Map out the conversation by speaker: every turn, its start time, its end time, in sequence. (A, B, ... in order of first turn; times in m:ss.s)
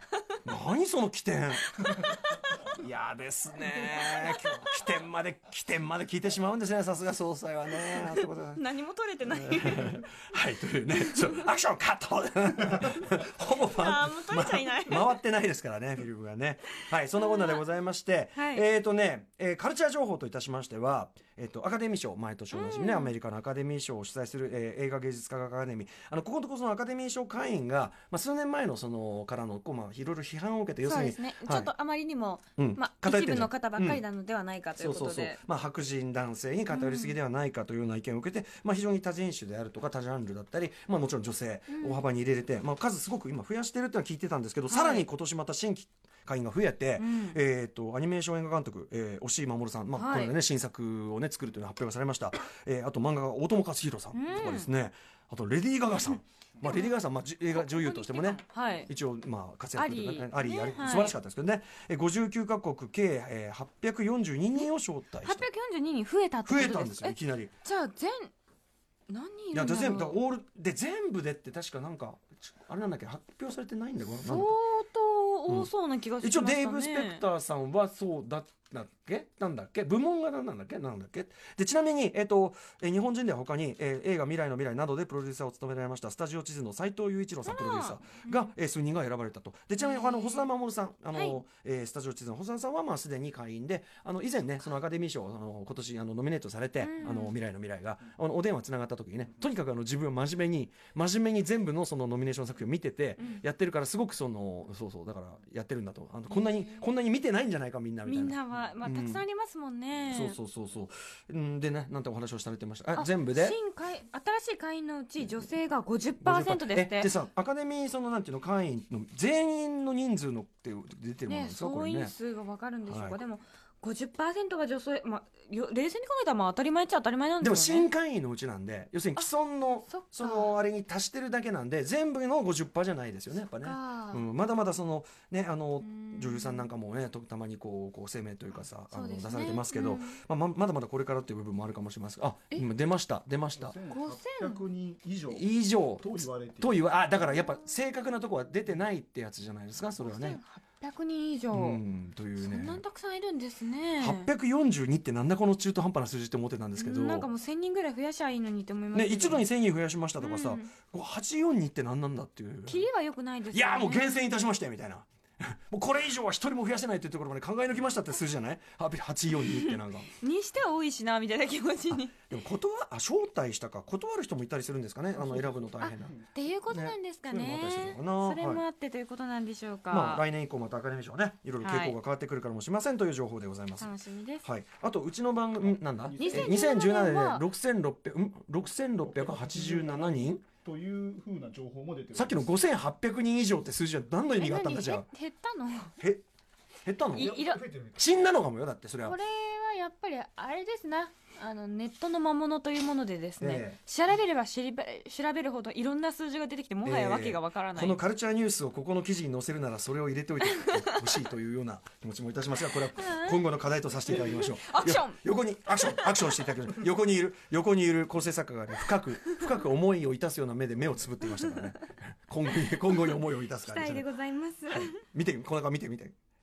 0:00.4-0:08.6 A
0:04.0-0:04.8 B
0:07.7-0:10.0 B
0:09.3-0:31.7 A
0:11.0-0:11.5 B
0:13.5-0:15.2 B
0:17.2-0:17.6 B
0:18.4-0:18.6 B
0:22.5-0:23.1 B
0:30.8-0:35.4 B
0:32.6-0:34.0 A
0:34.8-1:05.5 A
0:36.7-0:37.2 B
0:41.7-0:42.0 B
0:44.7-0:45.1 B
0:47.0-0:47.4 B
0:49.9-0:50.4 B
0:54.1-0:54.7 B
0:56.6-0:57.0 B
0:57.5-0:58.9 B
0:59.8-1:01.2 B
1:05.2-1:08.3 B
1:06.5-1:07.5 A
1:09.1-1:10.2 B
1:09.5-1:14.5 A
1:14.2-1:17.2 B
1:16.2-1:49.2 A
1:27.4-1:28.5 B
1:29.8-1:30.5 B
1:31.1-1:31.4 B
1:36.8-1:37.4 B
1:46.3-1:46.9 B
1:48.0-1:50.4 B
1:50.1-1:53.6 A
1:53.0-1:57.2 B
1:56.2-2:02.1 A
2:01.3-2:07.9 B
2:02.9-2:03.2 A
2:07.4-2:23.8 A
2:09.9-2:10.6 B
2:13.6-2:14.2 B
2:15.8-2:16.7 B
2:18.9-2:20.2 B
2:23.7-2:25.4 C
2:23.9-2:24.6 B
2:25.3-2:30.4 A
2:26.0-2:26.7 C
2:30.0-2:31.8 B
2:31.5-2:32.8 A
2:32.4-2:34.3 B
2:34.0-2:37.3 A
2:36.8-2:39.5 B
2:38.9-2:42.8 A
2:40.2-2:40.7 B
2:42.7-2:44.1 B
2:43.5-2:50.1 A
2:49.4-2:52.2 B
2:51.9-2:58.6 A
2:55.8-3:00.3 B
2:59.9-3:03.9 A
3:01.6-3:02.0 B
3:03.8-3:04.4 B
3:04.4-3:10.5 A
3:06.2-3:07.5 B
3:09.2-3:12.5 C
3:12.2-3:15.1 A
3:14.4-3:16.0 B
3:16.8-3:19.2 A
3:17.1-3:17.7 B
3:17.6-3:17.9 C
3:19.0-3:28.0 B
3:23.4-3:23.8 A
3:26.8-3:44.0 A
3:30.4-3:31.2 B
3:32.6-3:33.4 B
3:34.4-3:35.2 B
3:35.7-3:36.5 B
3:42.7-3:45.0 B
3:44.7-3:46.1 A